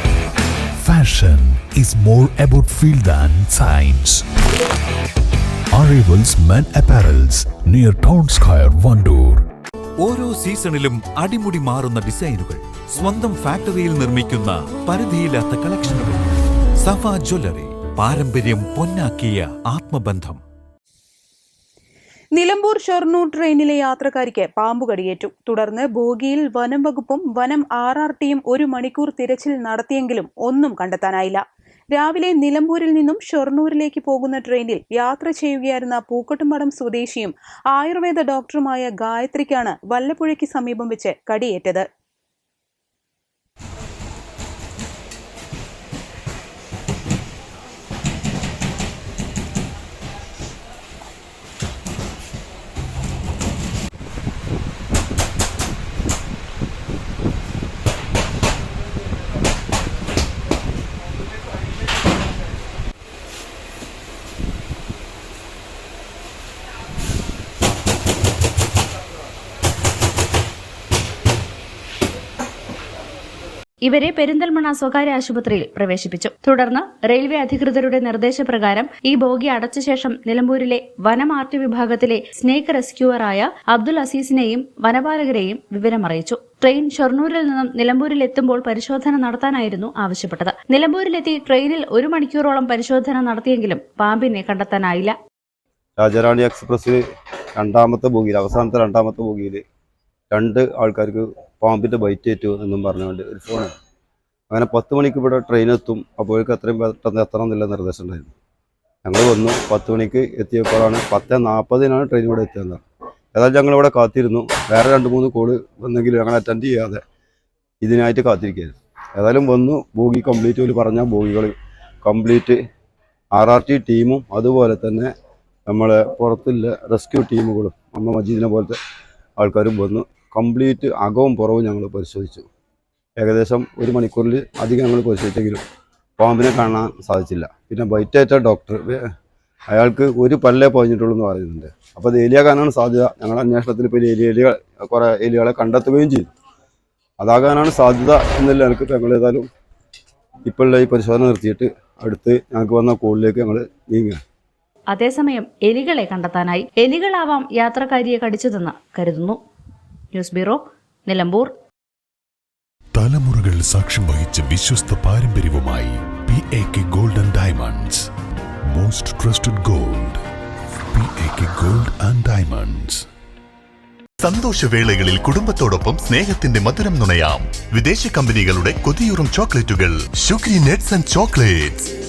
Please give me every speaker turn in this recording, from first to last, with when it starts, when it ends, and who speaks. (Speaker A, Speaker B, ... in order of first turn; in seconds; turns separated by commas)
Speaker A: 0.8-4.2, Speaker A: 5.7-9.4, Speaker B: 10.0-20.4, Speaker C: 22.3-41.9, Speaker D: 73.8-95.2, Speaker E: 96.0-97.0, Speaker E: 97.6-99.6, Speaker E: 100.3-103.7, Speaker E: 104.5-108.3, Speaker E: 109.0-112.8, Speaker E: 113.3-117.0, Speaker E: 117.8-122.6, Speaker E: 123.3-125.1, Speaker E: 125.7-128.8, Speaker E: 129.4-132.5, Speaker E: 133.2-135.6, Speaker E: 136.2-139.0, Speaker E: 139.7-146.3, Speaker E: 147.2-149.5, Speaker E: 150.5-154.2, Speaker D: 154.9-159.4, Speaker D: 160.1-161.5, Speaker A: 162.9-168.1, Speaker A: 168.7-170.2, Speaker A: 170.9-173.0, Speaker F: 174.2-181.9